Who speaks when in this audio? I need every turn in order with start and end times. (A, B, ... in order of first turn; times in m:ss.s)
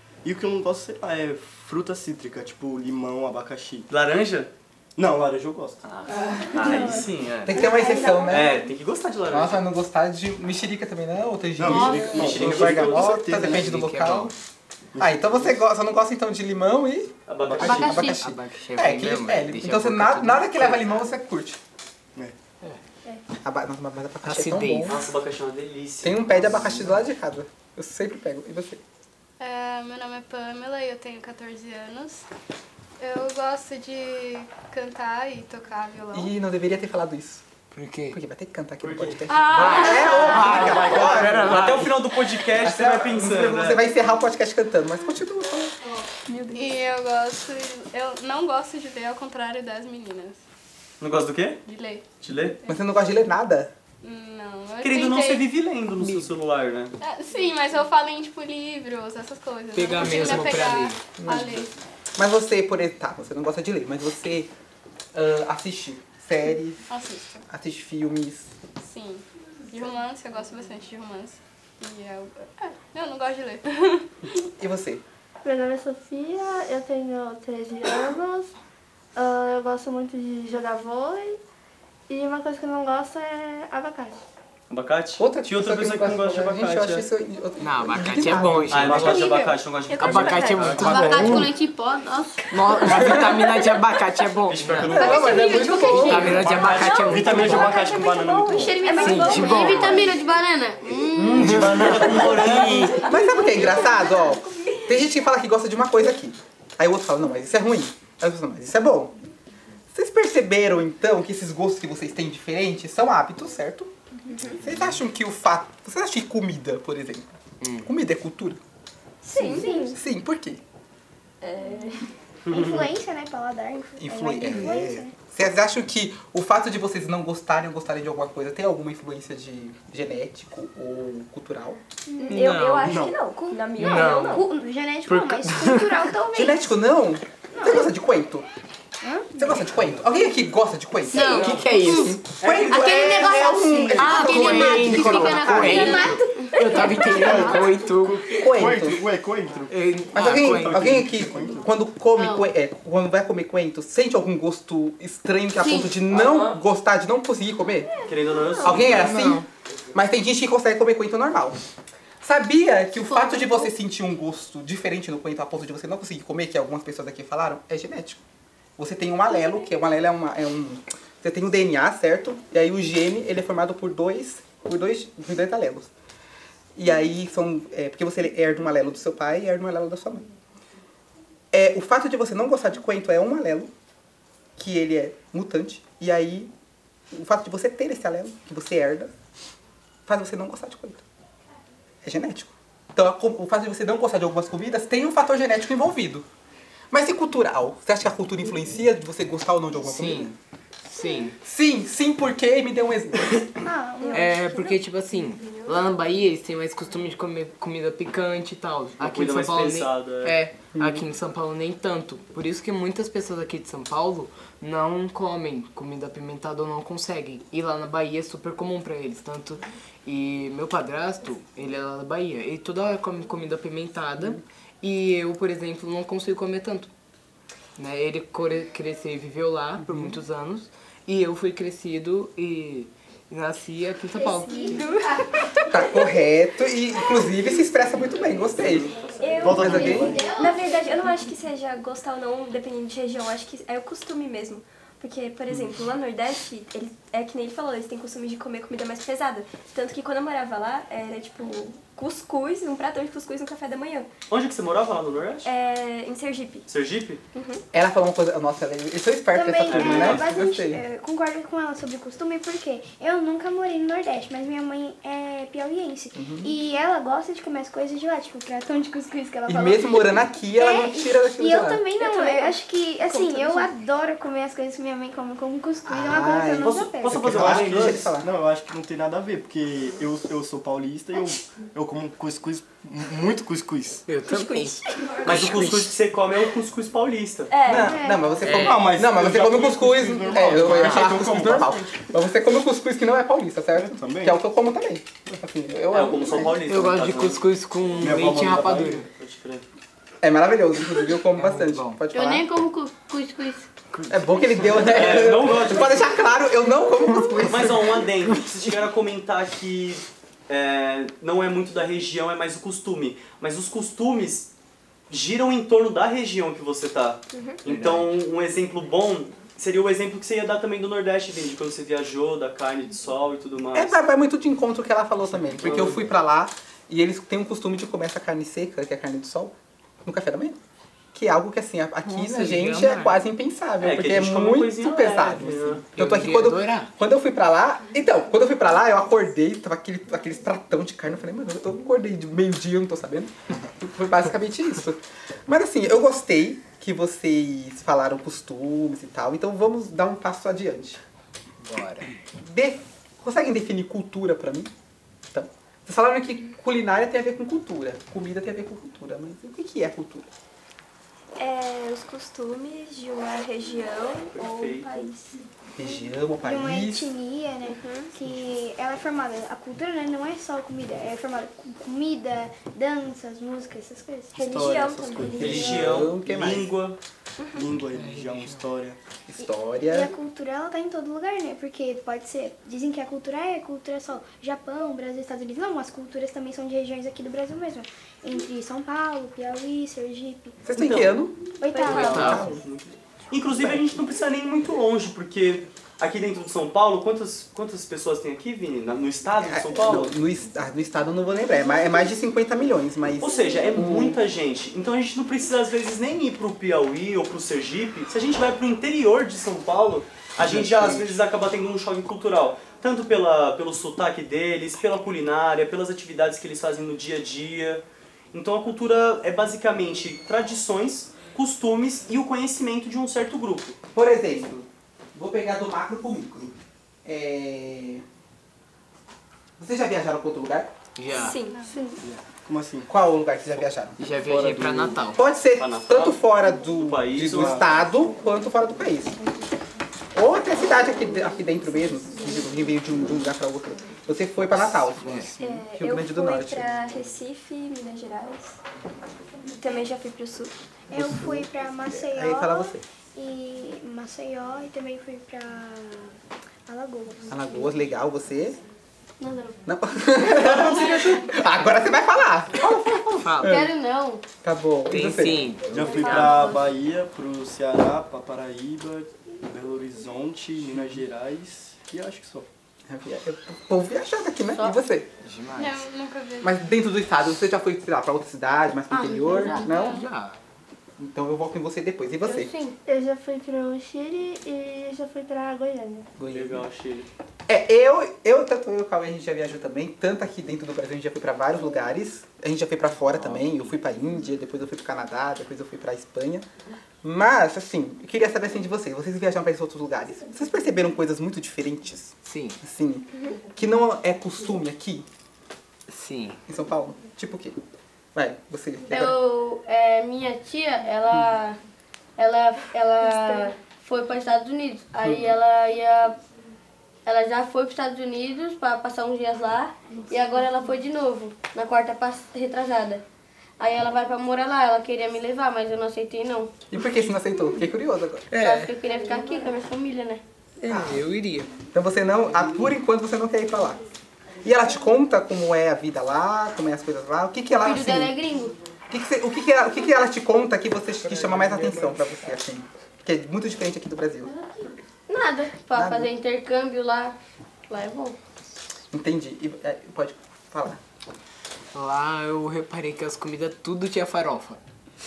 0:00.2-0:03.9 A
0:03.9-0:04.5 B
0:05.0-0:05.8 A
0:05.9-0:09.6 B
0:06.5-0:08.6 C
0:07.4-0:08.6 D
0:09.3-0:14.3 D
0:11.6-0:13.7 A
0:11.7-0:13.2 B
0:11.8-0:12.0 E
0:13.3-0:14.3 F
0:14.9-0:15.6 A
0:15.0-0:21.6 D
0:17.3-0:18.0 B
0:17.4-0:18.0 A
0:17.6-0:18.2 E
0:17.9-0:20.8 F
0:23.4-0:25.0 D
0:24.2-0:25.0 F
0:24.9-0:26.5 B
0:26.0-0:28.8 D
0:26.5-0:26.9 F
0:29.4-0:32.2 G
0:33.0-0:36.3 G
0:36.1-0:37.4 D
0:37.7-0:38.2 F
0:38.1-0:41.8 D
0:38.8-0:39.7 B
0:39.3-0:40.7 G
0:39.5-0:41.9 F
0:40.3-0:43.8 B
0:42.6-0:45.8 D
0:46.3-0:46.7 H
0:46.5-0:50.4 G
0:51.0-0:51.6 B
0:51.6-0:52.0 G
0:52.2-0:52.6 B
0:52.6-0:53.7 D
0:54.0-0:55.5 G
0:54.8-0:57.0 B
0:56.0-0:56.3 F
0:57.0-1:01.7 G
0:59.7-1:01.0 F
1:01.2-1:04.5 D
1:05.1-1:06.9 D
1:06.9-1:07.4 G
1:07.4-1:08.5 D
1:08.8-1:14.4 G
1:14.6-1:15.0 D
1:15.4-1:18.5 I
1:19.1-1:21.4 I
1:22.1-1:24.2 I
1:24.7-1:27.0 B
1:25.2-1:29.2 D
1:27.6-1:29.2 F
1:28.7-1:31.2 B
1:29.1-1:30.7 G
1:30.0-1:31.5 F
1:30.7-1:31.4 A
1:30.7-1:32.4 E
1:32.5-1:35.1 F
1:32.9-1:33.2 D
1:34.5-1:37.4 B
1:34.9-1:36.6 D
1:34.9-1:40.2 H
1:35.3-1:35.9 C
1:35.8-1:37.9 F
1:36.5-1:39.0 A
1:37.7-1:40.1 C
1:38.9-1:40.0 F
1:39.2-1:41.6 E
1:41.1-1:43.1 B
1:41.3-1:49.2 D
1:43.0-1:44.9 H
1:49.9-1:53.9 D
1:54.5-1:57.3 D
1:57.6-1:57.9 F
1:57.8-1:58.6 D
1:59.2-2:00.0 H
1:59.3-2:00.0 C
1:59.4-2:00.6 D
2:01.4-2:02.1 H
2:02.5-2:05.1 C
2:02.5-2:02.9 B
2:04.0-2:11.8 D
2:12.1-2:12.6 C
2:12.2-2:14.5 H
2:12.3-2:13.0 F
2:12.6-2:13.2 A
2:13.3-2:16.7 C
2:13.8-2:14.4 F
2:15.0-2:16.1 F
2:16.3-2:18.5 D
2:17.5-2:17.9 C
2:19.0-2:19.6 C
2:19.4-2:26.1 D
2:21.1-2:27.0 E
2:21.1-2:22.2 F
2:22.4-2:22.7 B
2:22.9-2:24.6 C
2:24.0-2:28.8 F
2:25.7-2:27.2 C
2:27.0-2:31.7 A
2:28.3-2:29.0 D
2:29.7-2:31.3 F
2:30.1-2:37.9 D
2:32.1-2:32.5 E
2:37.9-2:38.9 H
2:38.1-2:39.2 B
2:38.6-2:41.6 D
2:38.9-2:39.4 F
2:42.2-2:48.2 D
2:43.1-2:43.7 E
2:48.8-2:55.9 D
2:56.7-3:00.3 D
3:01.5-3:03.7 D
3:04.6-3:06.5 D
3:07.1-3:09.1 D
3:10.0-3:11.0 D
3:12.0-3:16.3 D
3:16.9-3:20.4 D
3:19.8-3:20.3 F
3:20.8-3:21.4 F
3:21.4-3:23.5 D
3:23.6-3:24.4 C
3:24.0-3:25.8 H
3:24.1-3:46.9 F
3:29.0-3:30.3 B
3:30.7-3:31.0 D
3:47.8-3:54.9 F
3:49.8-3:50.2 D
3:54.1-3:56.1 C
3:54.6-3:55.8 H
3:55.6-3:58.9 D
3:58.5-3:59.2 B
3:59.2-4:14.1 H
3:59.2-4:00.9 C
3:59.4-4:00.3 A
3:59.5-4:00.2 D
4:14.3-4:15.5 B
4:15.4-4:16.6 H
4:16.7-4:17.2 B
4:17.3-4:17.6 H
4:17.7-4:20.8 D
4:19.3-4:37.3 C
4:19.7-4:20.3 B
4:26.1-4:26.5 D
4:29.4-4:31.8 D
4:32.0-4:33.7 H
4:35.8-4:38.3 D
4:36.6-4:38.1 B
4:37.2-4:44.0 A
4:44.1-4:45.9 F
4:44.3-4:45.3 H
4:45.2-4:47.5 B
4:47.5-4:48.1 H
4:47.6-4:56.6 D
4:47.7-4:48.4 C
4:48.4-4:48.8 F
4:48.4-4:52.0 A
4:50.5-4:51.2 F
4:53.7-4:54.4 A
4:55.9-4:57.5 B
4:56.6-4:59.0 F
4:58.0-4:59.0 A
4:59.1-4:59.6 B
5:00.2-5:02.5 D
5:01.4-5:02.0 F
5:02.1-5:03.7 E
5:03.9-5:05.0 F
5:04.1-5:08.0 D
5:04.8-5:06.2 B
5:07.4-5:14.5 B
5:15.1-5:24.0 B
5:17.3-5:17.6 H
5:23.7-5:30.6 D
5:25.6-5:26.1 B
5:31.1-5:51.0 D
5:32.0-5:33.2 F
5:33.8-5:35.8 B
5:36.0-5:36.9 F
5:51.6-5:52.1 F
5:52.4-5:54.7 D
5:55.3-6:00.3 D
6:01.4-6:05.4 H
6:04.3-6:04.9 B
6:05.8-6:07.1 D
6:06.4-6:14.6 C
6:07.6-6:08.1 H
6:14.4-6:16.0 A
6:14.4-6:16.0 H
6:15.4-6:17.0 B
6:15.4-6:16.7 D
6:15.6-6:16.0 C
6:17.4-6:17.7 H
6:17.5-6:19.0 A
6:17.9-6:18.6 F
6:19.3-6:20.1 D
6:19.4-6:30.6 C
6:30.6-6:32.6 D
6:30.7-6:31.2 B
6:31.6-6:32.6 C
6:31.8-6:40.1 B
6:31.9-6:32.4 F
6:33.6-6:34.0 D
6:39.4-6:44.2 D
6:43.2-7:03.8 B
6:50.4-6:51.1 D
7:03.9-7:08.0 D
7:09.6-7:10.7 D
7:11.0-7:11.4 F
7:11.1-7:11.6 H
7:11.3-7:11.8 G
7:11.7-7:12.0 I
7:12.0-7:12.9 A
7:12.9-7:14.0 D
7:14.0-7:15.2 F
7:14.2-7:15.0 A
7:15.1-7:19.2 D
7:15.6-7:17.7 B
7:17.3-7:17.7 A
7:20.1-7:26.8 D
7:24.4-7:25.3 F
7:25.4-7:28.6 H
7:29.6-7:30.5 H
7:30.9-7:36.2 C
7:30.9-7:32.8 D
7:36.7-7:37.7 C
7:37.3-7:38.6 D
7:39.2-7:39.6 E
7:39.6-7:43.7 D
7:43.2-7:43.6 F
7:43.4-7:44.2 E
7:44.4-7:45.8 D
7:44.9-7:46.5 F
7:45.7-7:52.5 A
7:45.9-7:46.6 E
7:52.9-7:55.1 D
7:54.5-7:54.8 E
7:55.2-7:55.9 F
7:55.5-7:56.6 G
7:56.4-8:00.0 D
7:58.9-7:59.8 E
7:59.7-8:00.0 G
7:59.7-8:00.4 F
8:01.0-8:02.5 D
8:02.2-8:02.8 E
8:02.8-8:06.1 I
8:06.2-8:06.6 D
8:06.3-8:07.1 B
8:07.5-8:16.4 D
8:13.1-8:13.6 F
8:17.0-8:25.0 D
8:22.2-8:22.6 F
8:25.9-8:26.4 F
8:26.5-8:27.6 D
8:28.1-8:29.2 D
8:28.9-8:31.6 E
8:32.2-8:36.2 E
8:35.0-8:35.3 D
8:37.0-8:43.0 E
8:43.6-8:46.5 E
8:46.7-8:48.3 D
8:48.3-8:48.7 F
8:48.4-8:50.2 E
8:50.6-8:51.5 F
8:50.7-8:51.0 D
8:51.7-8:53.8 D
8:54.4-8:58.1 D
8:57.6-8:58.6 E
8:58.9-9:04.3 D
9:01.1-9:02.0 F
9:05.1-9:07.2 E
9:05.7-9:06.1 D
9:07.7-9:08.2 E
9:08.9-9:10.8 D
9:11.7-9:14.6 F